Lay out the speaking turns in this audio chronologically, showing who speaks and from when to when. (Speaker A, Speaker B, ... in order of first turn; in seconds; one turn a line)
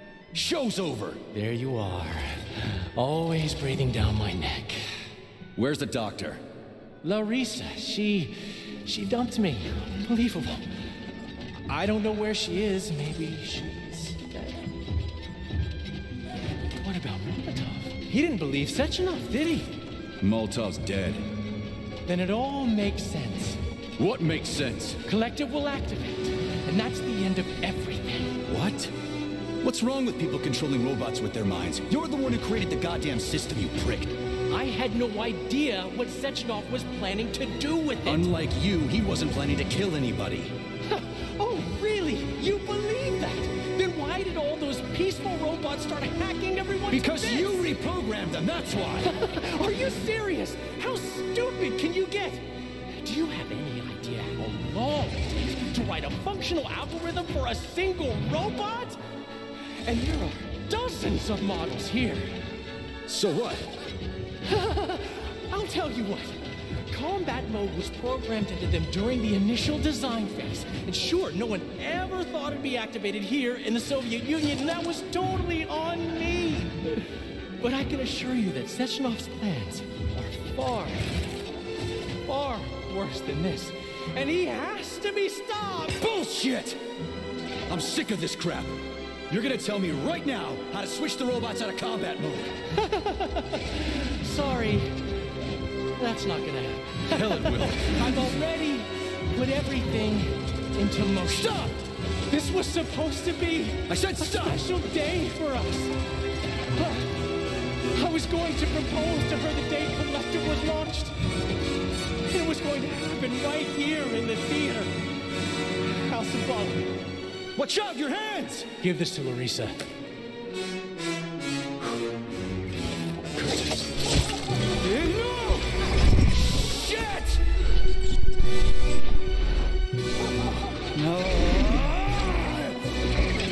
Speaker A: 0.3-1.2
Speaker B: 1.3-4.9
Speaker A: 5.5-6.4
Speaker B: 7.0-10.7
Speaker B: 11.7-14.7
Speaker B: 16.8-19.8
Speaker A: 20.2-21.3
Speaker B: 22.0-23.6
Speaker A: 24.0-25.0
Speaker B: 25.0-28.4
Speaker A: 28.4-28.9
Speaker A: 29.6-34.2
Speaker B: 34.5-38.3
Speaker A: 38.0-40.5
Speaker B: 40.9-47.7
Speaker A: 46.9-49.2
Speaker B: 49.0-59.0
Speaker B: 59.8-62.4
Speaker A: 63.0-63.7
Speaker B: 64.4-81.1
Speaker B: 82.2-86.0
Speaker A: 86.0-86.8
Speaker A: 87.7-88.8
Speaker A: 89.3-92.5
Speaker B: 92.8-95.0
Speaker B: 96.0-101.8
Speaker A: 97.1-98.2
Speaker B: 102.3-105.9
Speaker A: 103.9-104.7
Speaker B: 106.7-107.1
Speaker B: 107.9-111.1
Speaker B: 112.2-114.9
Speaker B: 115.9-116.9
Speaker A: 117.5-118.7
Speaker B: 118.8-119.8
Speaker A: 124.8-125.8
Speaker A: 126.6-127.4
Speaker A: 130.6-132.9